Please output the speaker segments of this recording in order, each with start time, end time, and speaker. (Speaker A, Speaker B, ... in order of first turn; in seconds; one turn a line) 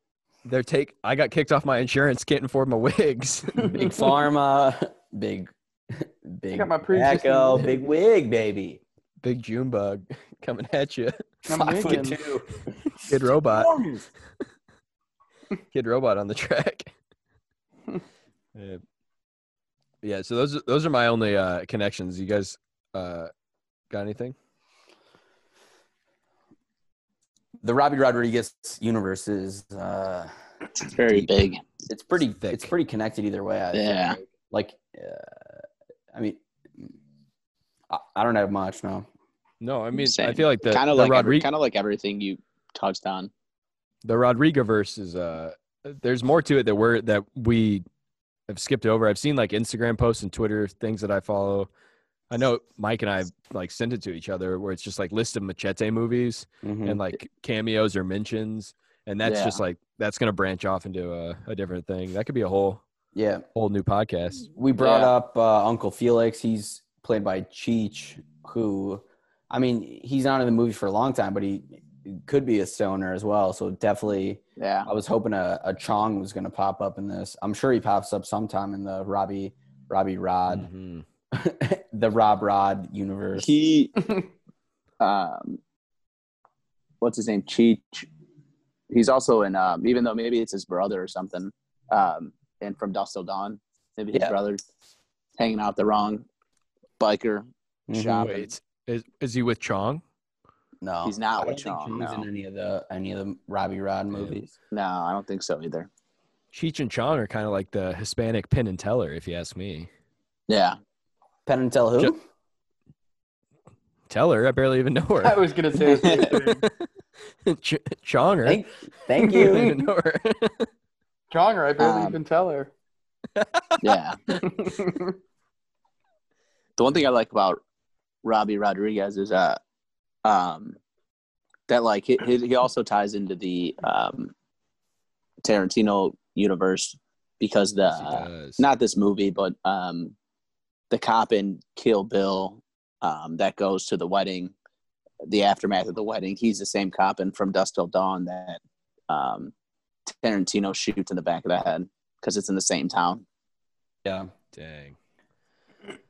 Speaker A: 0.4-3.9
Speaker B: 3.7-8.8
Speaker C: 6.5-7.7
Speaker A: 9.2-11.2
Speaker C: 11.5-12.2
Speaker B: 11.6-12.6
Speaker A: 13.0-13.7
Speaker B: 13.5-14.1
Speaker A: 15.7-16.9
Speaker A: 18.5-18.8
Speaker A: 20.0-23.3
Speaker A: 23.9-24.3
Speaker B: 27.6-30.3
Speaker D: 30.8-31.6
Speaker A: 31.1-31.5
Speaker B: 31.9-36.9
Speaker A: 32.4-32.7
Speaker D: 33.7-34.2
Speaker B: 37.9-39.1
Speaker A: 39.6-41.5
Speaker D: 40.0-43.3
Speaker A: 44.0-47.8
Speaker A: 48.5-51.7
Speaker A: 52.3-62.8
Speaker B: 56.6-57.0
Speaker D: 59.2-59.6
Speaker B: 63.1-63.4
Speaker A: 63.5-64.5
Speaker B: 64.5-80.7
Speaker D: 64.8-65.1
Speaker D: 74.6-74.9
Speaker A: 80.5-81.0
Speaker B: 81.3-83.5
Speaker D: 83.4-83.9
Speaker D: 85.0-85.6
Speaker D: 87.0-88.1
Speaker D: 88.9-94.6
Speaker D: 95.4-96.2
Speaker D: 97.0-98.5
Speaker B: 97.9-98.3
Speaker A: 98.2-100.0
Speaker B: 100.8-104.5
Speaker D: 101.0-102.2
Speaker D: 104.7-105.9
Speaker A: 106.5-109.9
Speaker D: 110.5-110.8
Speaker B: 111.5-112.2
Speaker A: 114.1-115.4
Speaker C: 115.2-116.6
Speaker D: 116.0-116.4
Speaker A: 117.5-118.6
Speaker B: 118.4-119.8
Speaker A: 119.3-120.7
Speaker C: 121.3-122.7
Speaker D: 121.8-122.2
Speaker A: 123.3-123.8
Speaker D: 123.8-124.2
Speaker C: 124.4-125.1
Speaker D: 126.8-127.6
Speaker D: 128.2-129.6
Speaker D: 130.2-130.8
Speaker D: 131.7-134.3
Speaker D: 135.4-140.1
Speaker A: 137.9-138.6
Speaker D: 140.9-144.5
Speaker D: 145.2-149.5
Speaker D: 150.1-153.2
Speaker B: 154.0-154.3
Speaker A: 154.5-154.9